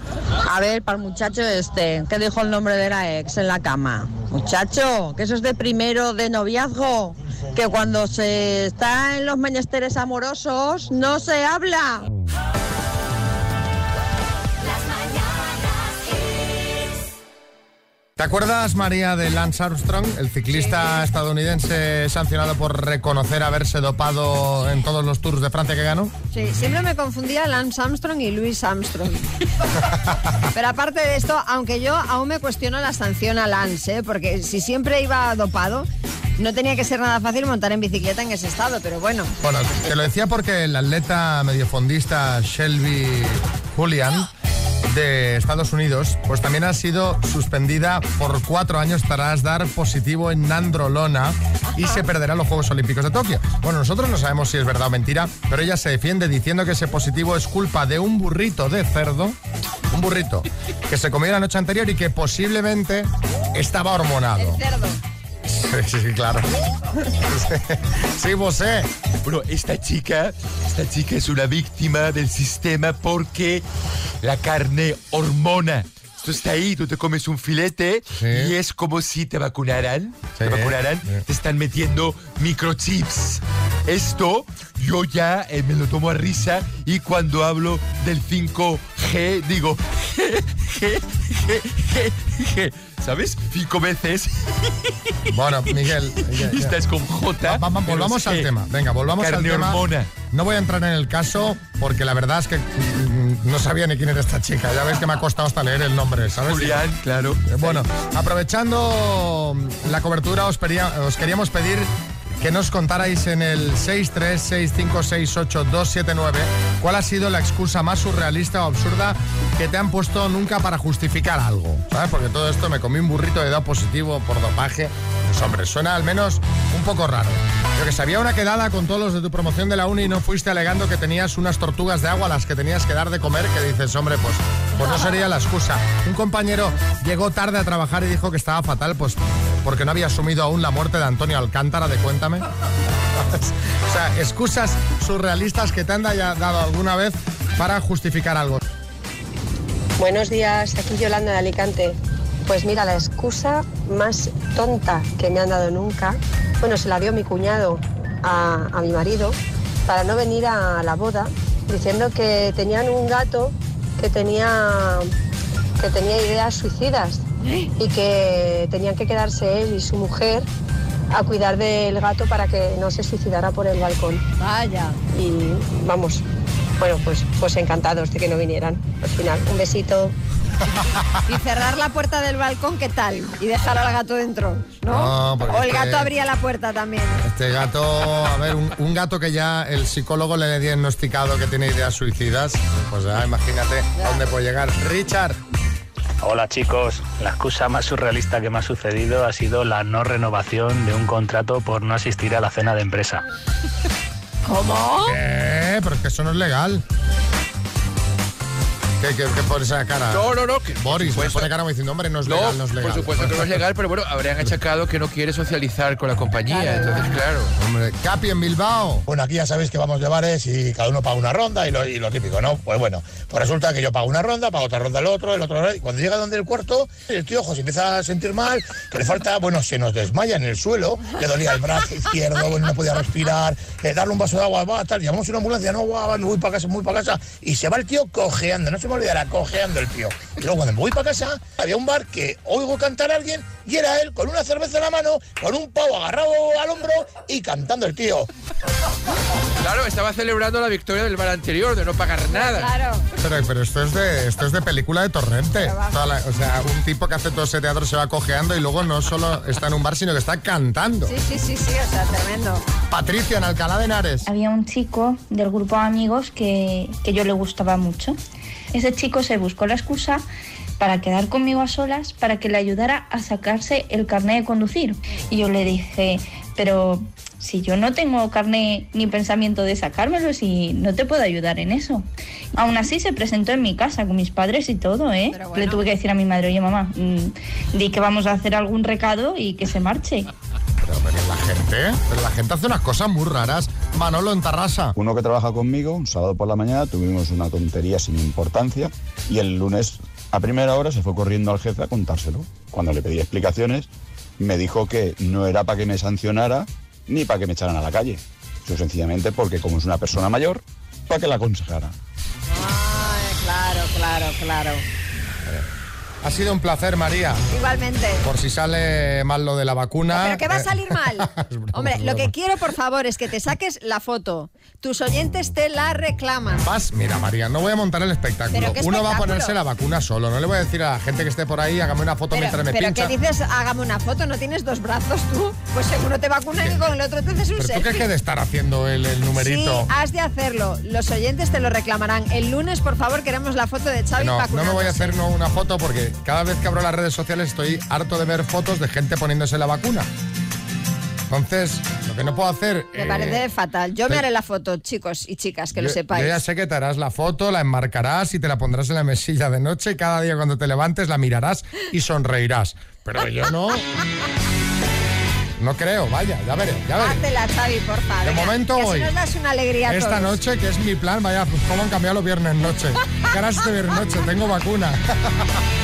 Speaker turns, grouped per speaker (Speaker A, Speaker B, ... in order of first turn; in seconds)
Speaker A: 0.4-12.1
Speaker B: 18.2-26.1, 39.4-44.3, 44.9-59.4, 59.9-64.6, 65.5-66.5, 67.0-68.9, 78.1-78.5, 80.4-81.2, 95.3-96.8, 97.4-106.9, 107.5-111.9, 112.4-142.5, 143.2-148.6, 184.9-186.1, 187.2-195.4, 205.0-206.8, 209.0-213.6, 217.6-219.1, 253.2-261.1, 262.9-264.3, 290.8-294.9, 316.2-317.4, 318.2-322.3, 326.6-333.1, 336.6-336.9, 337.6-339.9, 344.2-350.1, 351.3-353.4, 355.8-363.9, 365.6-367.3, 368.2-369.1, 369.9-375.6
Speaker C: 26.3-29.3, 30.5-35.9, 36.4-39.3, 64.4-65.0, 174.4-175.0, 180.8-187.2, 194.0-194.2, 204.5-205.2, 216.5-217.1, 252.3-253.1, 255.6-256.0, 261.1-262.6, 285.3-285.9, 312.5-314.8, 317.5-318.3, 320.1-326.6, 328.5-329.6, 332.3-338.0, 339.4-345.1, 353.0-356.4, 367.0-370.4
Speaker D: 69.2-73.6, 74.2-94.7, 96.2-98.5, 99.2-100.1, 106.2-107.8
Speaker E: 150.0-159.4, 159.9-165.1, 165.8-167.2, 167.8-170.5, 171.1-174.2, 175.2-176.2, 176.8-180.1
Speaker F: 196.2-203.2
Speaker G: 210.1-211.5, 212.3-217.5, 249.6-252.7
Speaker H: 219.1-248.3
Speaker I: 264.2-268.2, 268.7-270.2, 270.8-290.3
Speaker J: 295.0-311.9